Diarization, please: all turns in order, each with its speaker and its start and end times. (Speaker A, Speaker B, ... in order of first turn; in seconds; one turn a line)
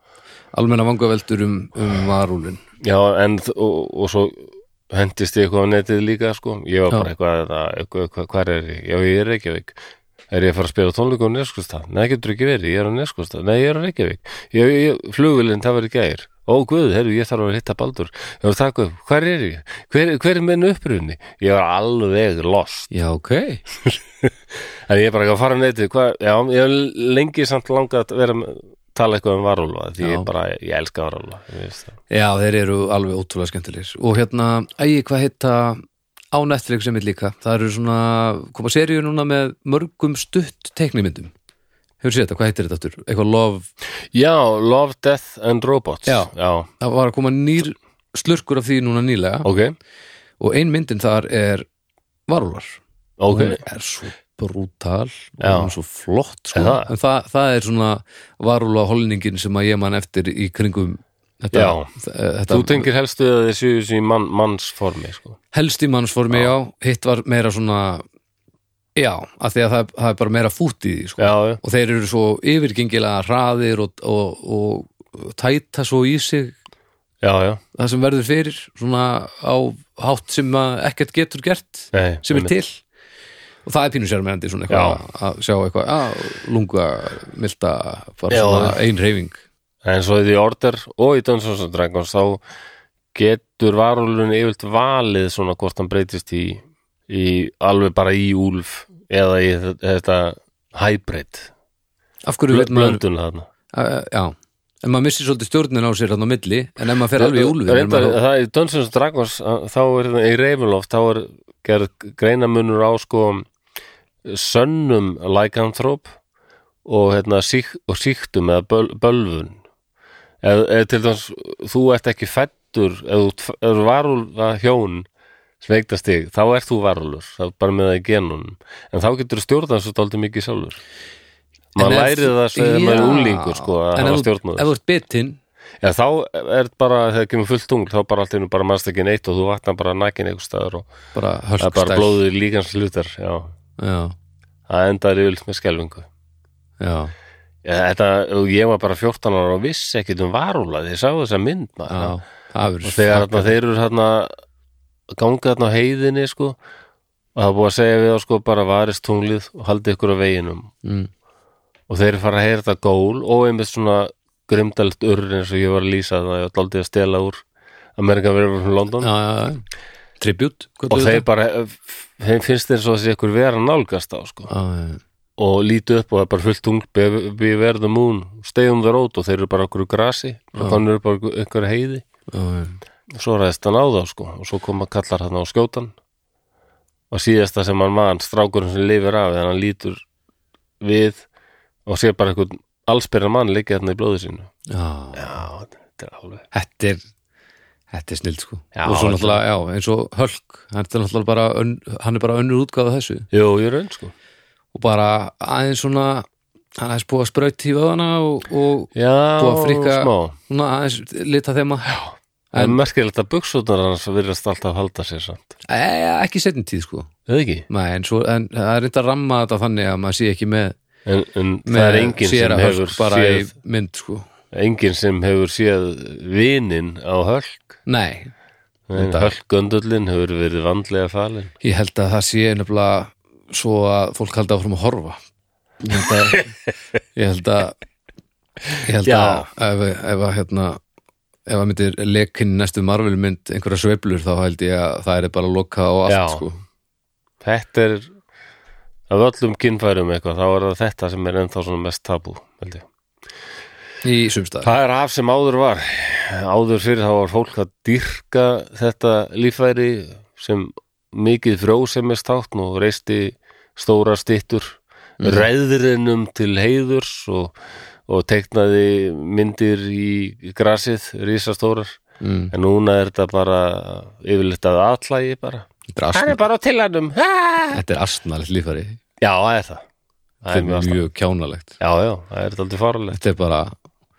Speaker A: 0.5-2.6
Speaker B: 2.8-9.8
Speaker B: 10.3-22.9
Speaker A: 22.9-23.6
Speaker B: 23.9-32.0
Speaker A: 30.0-30.3
Speaker A: 32.1-41.3
Speaker A: 42.0-43.7
Speaker B: 44.1-46.7
Speaker A: 46.1-49.5
Speaker B: 49.4-49.8
Speaker A: 50.4-51.7
Speaker A: 52.3-62.9
Speaker B: 53.2-53.6
Speaker B: 55.4-55.7
Speaker B: 56.5-56.9
Speaker B: 61.5-61.9
Speaker B: 62.5-65.4
Speaker A: 65.5-68.0
Speaker A: 69.0-76.6
Speaker B: 71.2-71.6
Speaker B: 77.2-77.6
Speaker A: 77.8-82.8
Speaker B: 81.9-82.5
Speaker A: 83.7-89.4
Speaker B: 84.7-85.0
Speaker B: 88.3-88.8
Speaker B: 89.8-92.4
Speaker B: 93.1-101.5
Speaker A: 102.3-103.0
Speaker B: 102.5-103.5
Speaker A: 103.7-108.2
Speaker B: 107.2-113.5
Speaker B: 114.2-116.1
Speaker B: 116.8-119.6
Speaker B: 120.4-125.1
Speaker B: 125.6-130.8
Speaker B: 131.8-134.7
Speaker A: 131.8-135.4
Speaker B: 135.8-140.9
Speaker A: 141.1-142.2
Speaker B: 141.6-143.5
Speaker A: 143.8-144.2
Speaker B: 144.7-146.1
Speaker A: 146.8-147.1
Speaker B: 147.7-152.2
Speaker A: 151.9-153.6
Speaker B: 152.8-154.3
Speaker B: 155.2-156.6
Speaker B: 157.4-160.7
Speaker A: 160.8-161.1
Speaker B: 161.9-167.4
Speaker B: 168.0-169.1
Speaker A: 169.0-169.6
Speaker A: 170.2-171.2
Speaker B: 170.9-174.5
Speaker A: 174.5-175.0
Speaker B: 175.4-182.1
Speaker A: 182.3-182.8
Speaker B: 183.2-185.9
Speaker B: 187.1-190.0
Speaker B: 190.8-191.3
Speaker B: 191.9-194.5
Speaker A: 194.7-195.3
Speaker B: 195.1-196.4
Speaker A: 196.5-197.0
Speaker A: 197.9-203.3
Speaker B: 198.7-199.4
Speaker B: 203.3-204.1
Speaker A: 204.7-212.8
Speaker B: 208.9-210.4
Speaker B: 211.9-215.6
Speaker A: 215.7-217.1
Speaker B: 217.3-217.7
Speaker A: 217.7-220.8
Speaker B: 221.1-223.5
Speaker A: 221.7-224.3
Speaker B: 224.5-227.8
Speaker A: 227.9-228.3
Speaker B: 228.9-231.5
Speaker A: 229.0-229.3
Speaker A: 231.6-235.2
Speaker A: 235.8-236.5
Speaker B: 236.0-236.4
Speaker A: 237.2-237.8
Speaker B: 238.7-239.5
Speaker A: 238.8-240.8
Speaker A: 241.5-246.6
Speaker B: 246.1-246.4
Speaker B: 247.4-248.1
Speaker B: 249.1-252.9
Speaker A: 254.0-254.7
Speaker B: 254.6-267.5
Speaker A: 265.2-265.5
Speaker B: 268.1-272.0
Speaker A: 272.2-272.5
Speaker B: 272.5-277.8
Speaker A: 275.9-276.4
Speaker A: 277.7-279.0
Speaker B: 279.2-279.9
Speaker B: 280.4-281.0
Speaker A: 280.5-281.7
Speaker B: 281.8-283.2
Speaker A: 283.1-283.7